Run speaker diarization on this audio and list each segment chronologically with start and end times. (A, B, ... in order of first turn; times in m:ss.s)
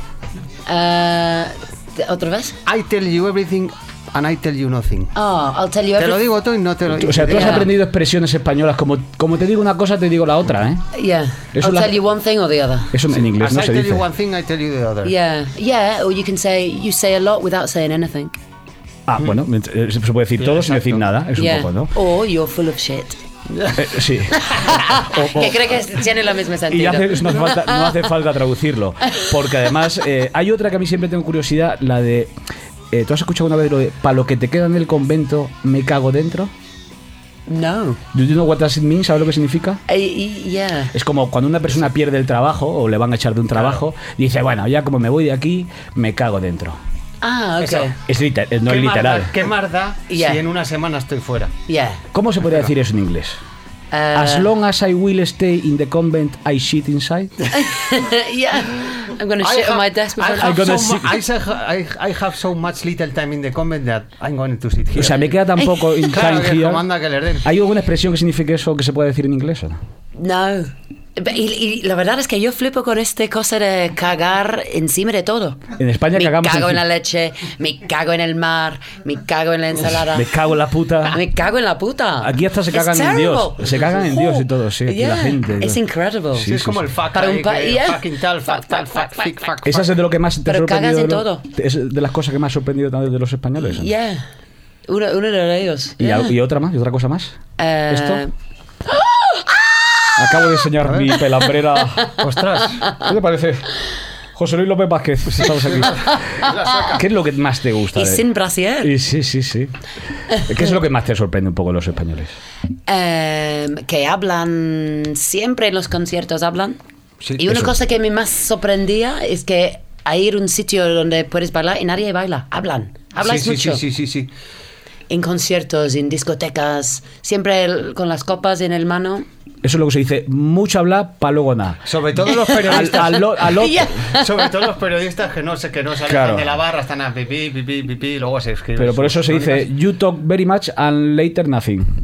0:00.7-0:02.6 A
0:02.6-0:05.1 B
0:05.1-0:06.2 A
0:06.0-0:07.7 B
0:06.9-0:10.8 C
0:07.3-0:07.7 A
0:10.9-0:12.9 A
0:11.5-0:12.0 C
0:12.9-0:14.0 C
0:13.1-0:15.1 B
0:15.0-0:18.3 A
0:19.1-0:21.9 C
0:20.4-0:21.1 B
0:21.4-0:23.2 A
0:23.7-0:25.8 C
0:24.4-0:28.0 A
0:26.7-0:32.3 C
0:32.9-0:36.5 C
0:37.5-0:38.0 A
0:38.1-0:39.8 C
0:39.9-0:40.9 A
0:40.9-0:46.8 C
0:43.5-0:43.8 B
0:47.2-0:47.9 A
0:47.6-0:47.9 B
0:48.1-0:49.3 C
0:48.6-0:51.5 B
0:50.1-0:50.4 A
0:51.7-0:52.0 A
0:52.1-0:53.4 C
0:53.9-0:54.5 A
0:54.1-0:57.5 C
0:57.5-1:00.6 A
0:59.4-1:05.3 B
1:00.4-1:01.2 C
1:04.9-1:06.8 C
1:05.6-1:06.0 A
1:06.1-1:07.5 B
1:07.4-1:09.8 C
1:10.1-1:15.6 A
1:15.8-1:16.8 C
1:16.1-1:20.3 A
1:20.0-1:21.2 C
1:21.0-1:26.5 A
1:22.2-1:25.8 C
1:26.3-1:26.8 C
1:26.4-1:29.9 B
1:27.1-1:28.7 A
1:29.6-1:33.9 C
1:30.4-1:31.4 A
1:33.6-1:34.2 A
1:34.9-1:36.3 A
1:36.0-1:37.4 C
1:37.6-1:38.3 A
1:37.9-1:38.2 C
1:38.9-1:39.5 A
1:40.2-1:42.1 C
1:42.2-1:42.9 B
1:43.0-1:43.7 C
1:44.4-1:46.2 C
1:45.3-1:47.0 B
1:46.0-1:46.5 A
1:46.9-1:48.2 C
1:47.9-1:48.9 A
1:48.8-1:49.7 C
1:50.3-1:50.7 A
1:50.3-1:52.3 C
1:52.9-1:56.8 A
1:57.2-1:57.6 B
1:57.4-2:03.8 A
2:03.2-2:04.3 B
2:05.1-2:09.2 A
2:09.6-2:11.9 C
2:11.8-2:13.3 B
2:12.5-2:14.3 A
2:12.5-2:14.0 C
2:14.1-2:19.7 B
2:16.0-2:16.5 C
2:18.8-2:21.9 C